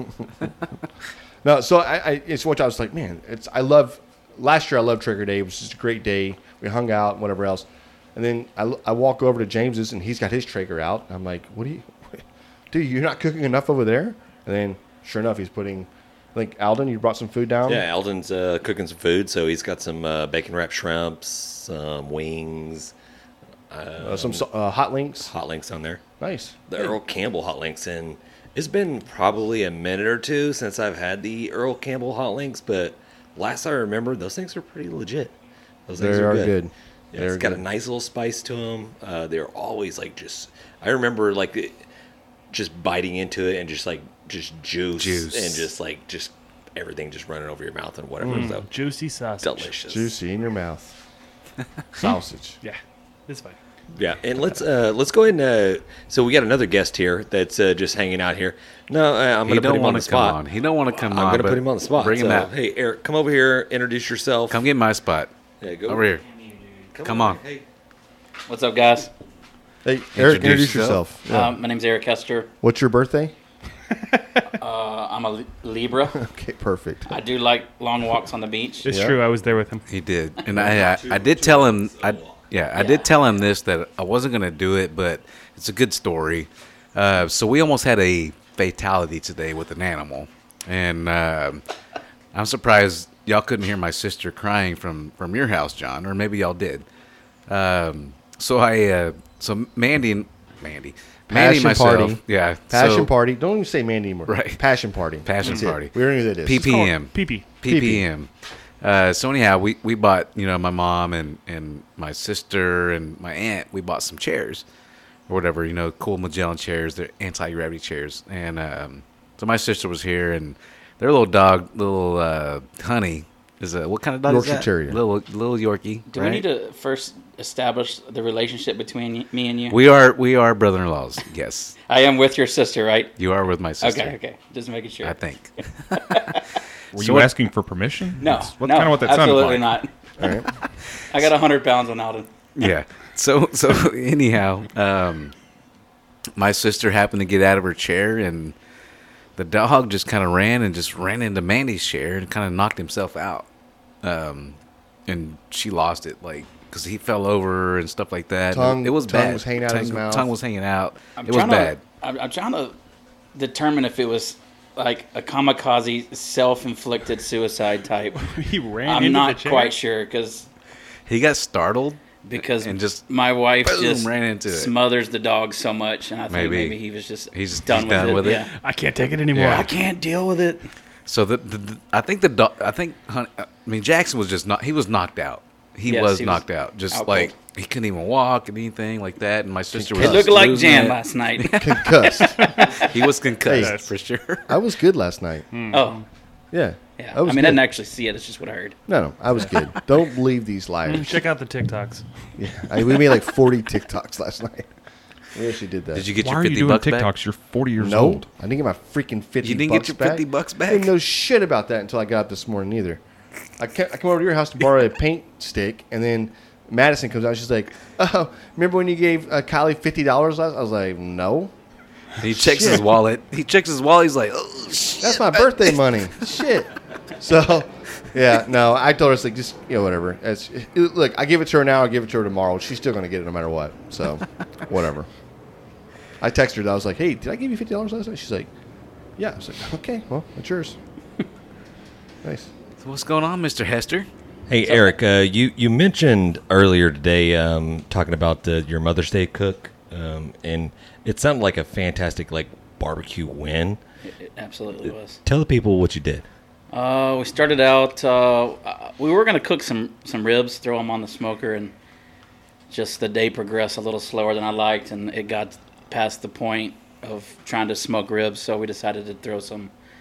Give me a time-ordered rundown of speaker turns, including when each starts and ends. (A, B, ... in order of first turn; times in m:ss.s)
0:01.4-0:17.8 A
0:17.6-0:22.9 B
0:23.7-0:24.4 B
0:24.0-0:25.3 A
0:25.2-0:26.0 B
0:26.2-0:26.7 A
0:26.7-0:35.3 B
0:35.9-0:36.6 B
0:35.9-0:37.6 A
0:37.1-0:41.8 B
0:42.5-0:48.7 B
0:45.0-0:45.7 C
0:48.2-0:49.7 D
0:49.4-0:50.1 B
0:49.9-0:50.9 A
0:51.9-0:52.6 A
0:52.6-0:53.6 D
0:53.9-1:00.4 B
0:59.4-1:02.5 C
1:00.9-1:04.6 B
1:04.5-1:05.3 C
1:05.6-1:06.1 B
1:05.9-1:06.2 C
1:06.9-1:07.6 B
1:07.0-1:07.4 C
1:08.5-1:09.1 E
1:09.8-1:11.5 A
1:10.1-1:11.0 C
1:11.3-1:12.5 E
1:12.6-1:13.3 A
1:14.6-1:16.2 E
1:16.1-1:17.1 A
1:17.1-1:18.9 E
1:18.8-1:19.8 D
1:18.8-1:19.2 A
1:19.9-1:31.6 C
1:20.5-1:22.5 B
1:22.7-1:23.1 E
1:32.3-1:36.8 C
1:37.5-1:43.1 C
1:41.3-1:46.7 A
1:44.3-1:44.6 C
1:45.2-1:48.3 C
1:45.4-1:45.8 D
1:46.5-1:47.6 D
1:47.6-1:48.0 A
1:48.8-1:54.6 C
1:55.3-2:06.4 C
2:04.2-2:05.0 A
2:06.1-2:09.8 E
2:09.7-2:11.8 C
2:11.9-2:13.1 E
2:13.2-2:14.2 C
2:13.8-2:16.5 E
2:15.0-2:16.4 C
2:16.9-2:17.3 C
2:16.9-2:19.8 F
2:18.2-2:20.3 E
2:20.2-2:20.4 A
2:21.1-2:22.3 E
2:22.6-2:25.3 C
2:26.4-2:28.5 C
2:29.4-2:33.4 C
2:34.0-2:41.8 C
2:38.5-2:40.3 A
2:41.2-2:42.8 E
2:43.3-2:48.3 E
2:48.2-2:49.8 D
2:48.8-2:50.5 E
2:51.0-2:53.0 C
2:52.2-2:58.5 E
2:53.6-2:54.7 C
2:56.3-2:56.8 C
2:57.3-2:58.5 C
2:58.0-2:59.7 D
2:59.3-2:59.7 C
2:59.4-3:00.7 E
3:01.0-3:14.6 C
3:05.8-3:07.3 E
3:09.7-3:10.4 A
3:09.9-3:12.8 E
3:11.5-3:12.5 A
3:12.3-3:12.9 D
3:13.4-3:13.8 A
3:13.5-3:13.9 D
3:14.5-3:15.5 A
3:15.5-3:16.0 D
3:15.7-3:16.0 E
3:16.5-3:17.6 A
3:17.0-3:18.8 E
3:18.9-3:21.2 A
3:20.8-3:22.0 D
3:22.4-3:24.7 A
3:25.3-3:26.1 A
3:25.9-3:27.1 C
3:26.2-3:28.2 F
3:27.8-3:33.0 A
3:29.4-3:30.9 C
3:33.6-3:41.5 A
3:42.2-3:45.8 C
3:42.3-3:42.9 A
3:45.0-3:55.1 A
3:56.2-3:58.5 A
3:59.2-4:00.8 A
4:02.2-4:02.5 A
4:02.8-4:04.1 C
4:04.5-4:13.8 B
4:04.6-4:04.9 E
4:14.0-4:15.2 E
4:14.8-4:16.2 B
4:16.7-4:21.7 E
4:22.7-4:29.7 E